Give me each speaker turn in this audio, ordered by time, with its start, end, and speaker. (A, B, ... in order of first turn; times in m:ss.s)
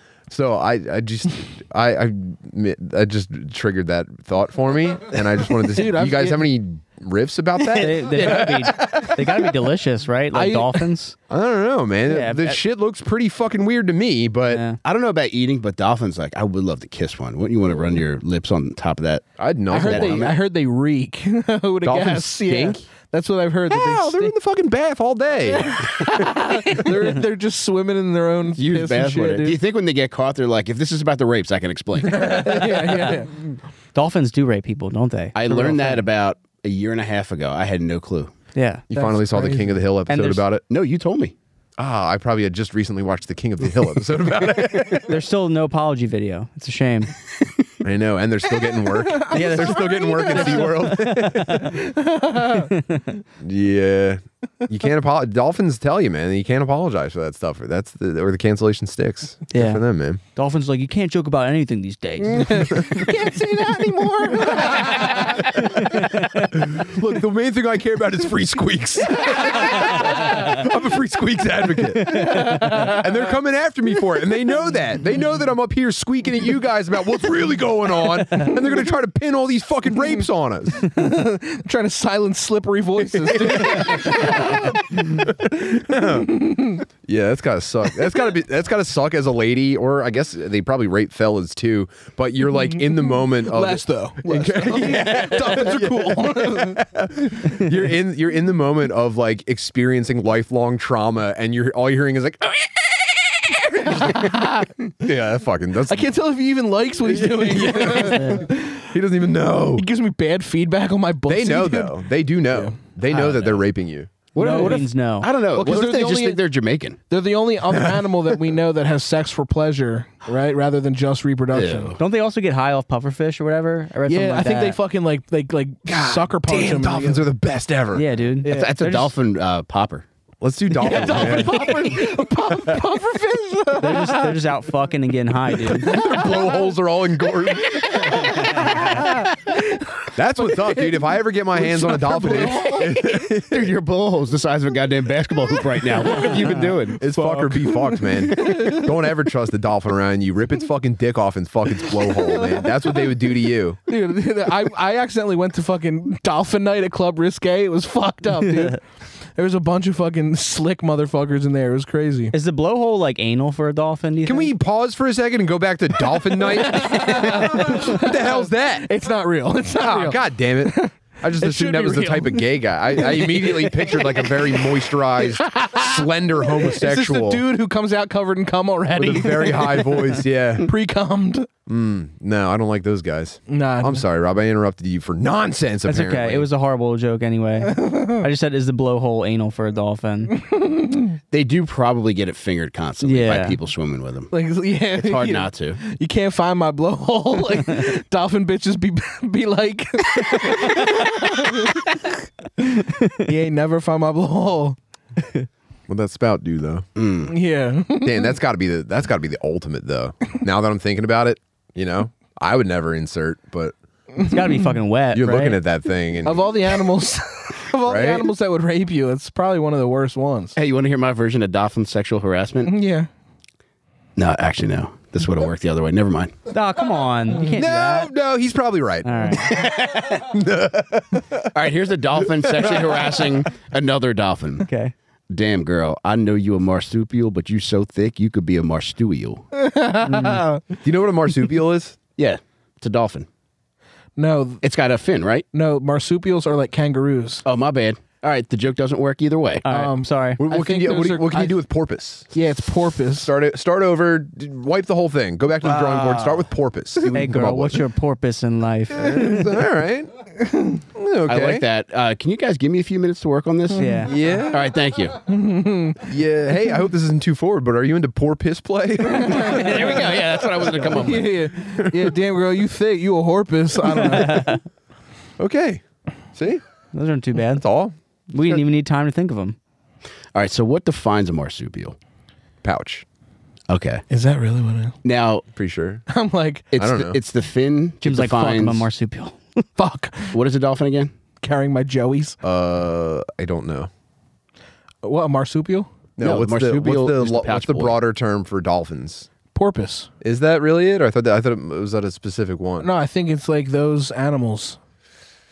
0:00.3-0:09.1 A
0:05.6-0:06.4 B
0:07.7-0:11.2 C
0:08.2-0:08.4 D
0:08.3-0:09.5 B
0:10.3-0:10.8 B
0:11.3-0:14.6 A
0:12.1-0:12.6 C
0:14.5-0:14.8 C
0:14.8-0:20.3 D
0:19.4-0:20.3 A
0:19.7-0:24.3 B
0:21.8-0:22.8 A
0:23.7-0:26.8 A
0:25.4-0:29.6 B
0:28.5-0:32.7 D
0:32.0-0:33.3 B
0:32.8-0:33.2 C
0:33.9-0:35.9 C
0:35.3-0:38.3 D
0:38.5-0:38.8 C
0:38.9-0:40.6 A
0:38.9-0:39.8 B
0:40.1-0:40.5 C
0:40.7-0:41.3 D
0:41.8-0:45.2 A
0:45.0-0:47.1 C
0:47.8-0:51.6 A
0:49.0-0:51.0 B
0:49.3-0:51.8 C
0:51.6-0:52.7 B
0:52.4-0:53.2 C
0:53.4-1:00.2 A
0:59.5-0:59.8 C
1:00.3-1:02.8 C
1:02.2-1:06.1 B
1:02.7-1:03.1 A
1:04.4-1:06.5 C
1:04.4-1:20.9 A
1:09.2-1:10.6 B
1:10.0-1:10.4 C
1:12.0-1:12.8 C
1:12.0-1:13.1 B
1:18.4-1:18.8 B
1:20.8-1:26.8 B
1:23.2-1:44.4 A
1:32.8-1:37.5 B
1:43.8-1:44.9 B
1:45.0-1:46.0 A
1:45.9-1:48.9 B
1:47.0-1:49.9 A
1:47.9-1:48.5 C
1:49.8-1:52.7 B
1:51.2-1:54.1 A
1:53.1-1:53.6 D
1:54.4-1:54.9 B
1:54.4-1:55.3 C
1:54.4-1:57.0 D
1:55.5-1:56.4 B
1:57.1-2:01.9 B
1:57.7-1:58.5 A
2:01.5-2:02.0 D
2:02.0-2:04.8 C
2:04.1-2:07.2 B
2:05.9-2:08.0 A
2:07.9-2:09.1 C
2:08.4-2:10.0 D
2:10.4-2:11.9 A
2:10.8-2:14.3 B
2:10.8-2:12.0 C
2:12.5-2:12.8 A
2:13.8-2:16.0 C
2:15.6-2:16.7 B
2:15.7-2:19.1 A
2:17.6-2:21.0 B
2:18.2-2:19.1 C
2:20.1-2:23.7 A
2:21.5-2:23.3 B
2:23.5-2:27.0 D
2:26.0-2:26.4 B
2:27.0-2:33.8 A
2:27.0-2:29.1 B
2:31.9-2:33.1 B
2:33.9-2:38.8 B
2:39.3-2:42.3 B
2:42.3-2:44.5 C
2:44.2-2:48.9 A
2:46.3-2:54.7 B
2:49.7-2:57.4 A
2:55.2-3:01.5 B
2:58.9-3:00.7 A
3:01.7-3:06.5 A
3:03.5-3:04.0 B
3:05.9-3:10.4 C
3:07.6-3:08.2 B
3:10.4-3:11.2 B
3:11.3-3:14.3 D
3:13.0-3:13.6 C
3:14.3-3:22.2 B
3:14.9-3:15.8 D
3:23.2-3:24.8 B
3:25.9-3:26.8 A
3:27.0-3:27.3 D
3:27.3-3:28.4 B
3:28.0-3:33.7 A
3:34.1-3:34.7 B
3:34.2-3:35.6 C
3:35.1-3:36.5 A
3:36.2-3:40.5 B
3:37.8-3:38.3 A
3:40.6-3:42.7 D
3:42.7-3:43.1 B
3:44.2-3:46.3 D
3:46.5-3:48.1 C
3:47.4-3:51.5 A
3:49.0-3:49.6 C
3:49.5-3:50.2 D
3:51.5-3:54.6 D
3:52.5-3:53.4 A
3:54.7-3:54.9 C
3:55.3-3:59.4 D
3:59.5-4:00.6 B
4:00.0-4:00.4 C
4:00.8-4:02.0 A
4:02.2-4:03.3 D
4:04.2-4:04.6 B
4:04.6-4:05.4 D
4:05.5-4:07.4 B
4:07.4-4:09.6 D
4:09.6-4:10.4 C
4:09.7-4:11.5 B
4:10.4-4:12.3 A
4:12.3-4:13.3 B
4:13.2-4:17.8 A
4:15.6-4:16.4 D
4:17.1-4:19.5 C
4:18.9-4:20.1 A
4:20.5-4:20.8 B
4:20.9-4:21.6 A
4:21.3-4:25.2 D
4:23.8-4:24.1 B
4:23.8-4:24.1 C
4:24.0-4:24.7 A
4:25.2-4:26.0 B
4:26.0-4:32.2 A
4:29.1-4:29.9 B
4:29.3-4:31.3 D
4:30.9-4:34.6 B
4:33.8-4:34.6 C
4:35.4-4:35.8 A
4:36.3-4:36.6 A
4:36.9-4:37.6 C
4:37.5-4:37.9 A
4:38.3-4:39.6 C
4:40.3-4:42.0 D
4:42.6-4:43.0 A
4:43.7-4:44.0 D
4:44.1-4:45.0 B
4:45.0-4:45.4 D
4:45.5-4:46.0 A
4:46.1-4:46.7 B
4:46.7-4:48.9 D
4:46.8-4:47.2 A
4:48.0-4:49.6 C
4:49.8-4:50.4 B
4:50.3-4:51.1 D
4:51.4-4:52.4 B
4:52.4-4:53.9 A
4:55.0-4:55.9 B
4:56.2-4:59.3 A
4:56.2-4:58.0 D
4:59.5-5:00.1 B
5:00.2-5:02.9 A
5:02.8-5:04.8 B